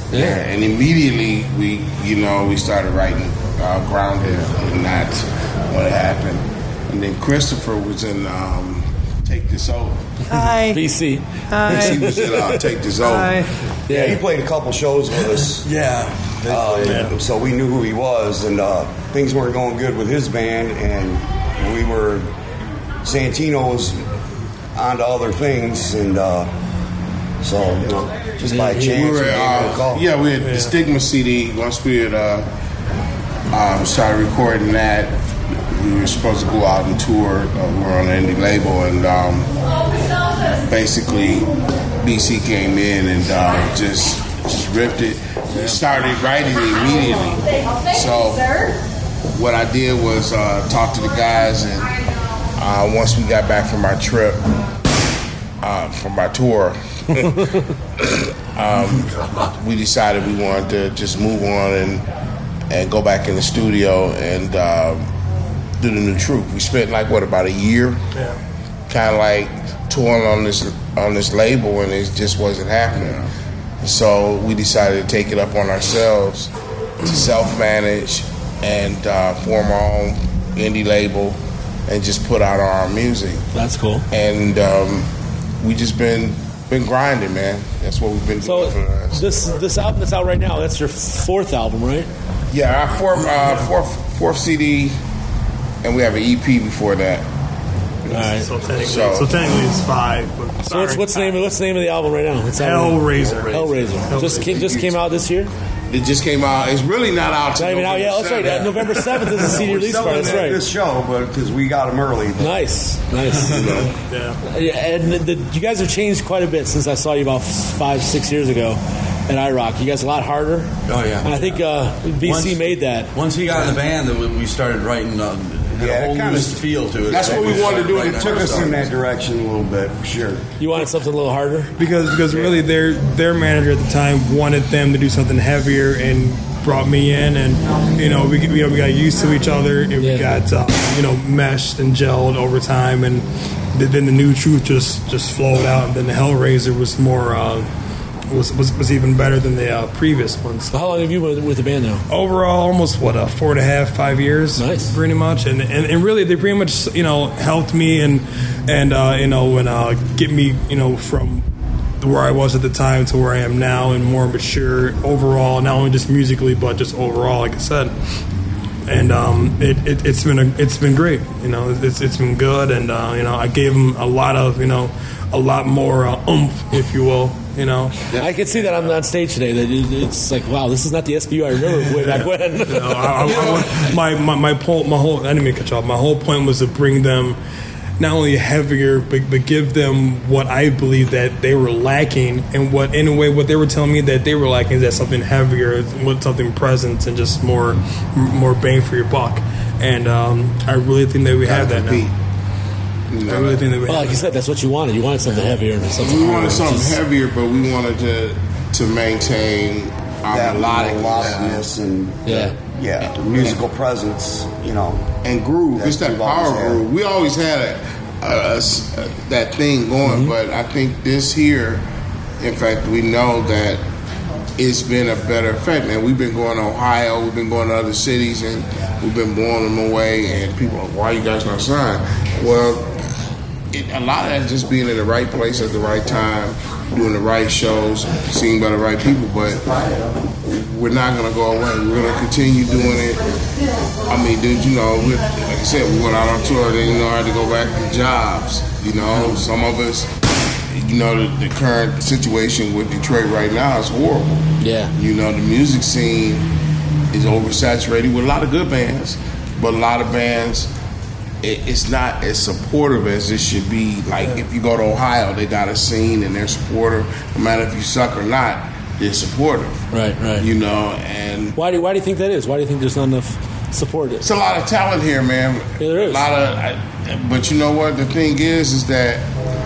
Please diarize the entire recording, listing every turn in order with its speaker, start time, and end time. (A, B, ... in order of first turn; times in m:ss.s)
0:00.1-0:10.0 A
0:00.1-0:00.4 B
0:10.4-0:10.8 C
0:10.6-0:12.6 B
0:11.7-0:13.4 A
0:13.1-0:13.4 C
0:13.9-0:14.2 B
0:13.9-0:15.7 D
0:15.8-0:17.0 E
0:16.5-0:22.3 D
0:16.9-0:17.1 C
0:23.0-0:24.0 D
0:24.8-0:26.5 D
0:27.4-0:30.1 D
0:28.5-0:29.0 B
0:28.8-0:32.5 A
0:30.4-0:30.8 C
0:33.5-0:39.5 A
0:40.6-0:48.6 A
0:45.5-0:46.1 E
0:49.3-0:51.9 A
0:52.6-0:54.4 A
0:55.6-0:57.4 A
0:58.0-1:02.0 A
1:02.7-1:05.1 A
1:05.8-1:08.0 A
1:08.9-1:13.3 A
1:13.8-1:16.5 A
1:17.0-1:23.5 A
1:23.5-1:24.0 B
1:24.1-1:25.1 A
1:25.6-1:29.4 A
1:28.4-1:32.1 B
1:32.5-1:35.0 A
1:35.8-1:37.3 A
1:38.1-1:38.5 B
1:38.1-1:41.4 C
1:38.8-1:39.3 A
1:40.7-1:45.5 B
1:42.6-1:44.6 C
1:44.4-1:45.0 A
1:45.9-1:49.4 A
1:47.6-1:50.6 B
1:49.4-1:52.6 D
1:52.4-1:53.6 B
1:53.5-1:53.9 A
1:54.1-1:54.4 C
1:54.5-2:03.1 B
2:00.9-2:01.6 E
2:02.2-2:08.9 E
2:05.8-2:06.6 D
2:07.1-2:08.6 A
2:07.2-2:10.4 D
2:10.6-2:11.7 B
2:11.8-2:27.7 C
2:20.0-2:20.4 B
2:28.3-2:30.7 C
2:30.7-2:32.0 B
2:32.1-2:41.4 C
2:34.6-2:34.9 B
2:42.0-2:47.9 C
2:48.9-2:58.0 C
2:58.2-3:03.6 B
3:02.0-3:07.4 C
3:08.0-3:22.1 C
3:21.4-3:22.1 A
3:23.1-3:23.7 A
3:23.2-3:24.3 C
3:23.9-3:27.0 B
3:26.0-3:31.6 A
3:30.3-3:35.1 D
3:32.3-3:32.6 B
3:33.1-3:33.6 A
3:35.2-3:41.8 A
3:35.8-3:36.8 D
3:40.0-3:40.3 B
3:42.4-3:43.8 A
3:44.6-3:53.0 A
3:53.7-3:59.7 A
4:00.4-4:03.2 A
4:04.1-4:10.1 A
4:10.7-4:16.5 A
4:14.6-4:14.9 B
4:17.1-4:20.7 A
4:21.4-4:29.8 A
4:29.9-4:30.5 B
4:30.4-4:31.6 A
4:31.6-4:34.2 B
4:34.2-4:39.3 A
4:35.8-4:36.3 B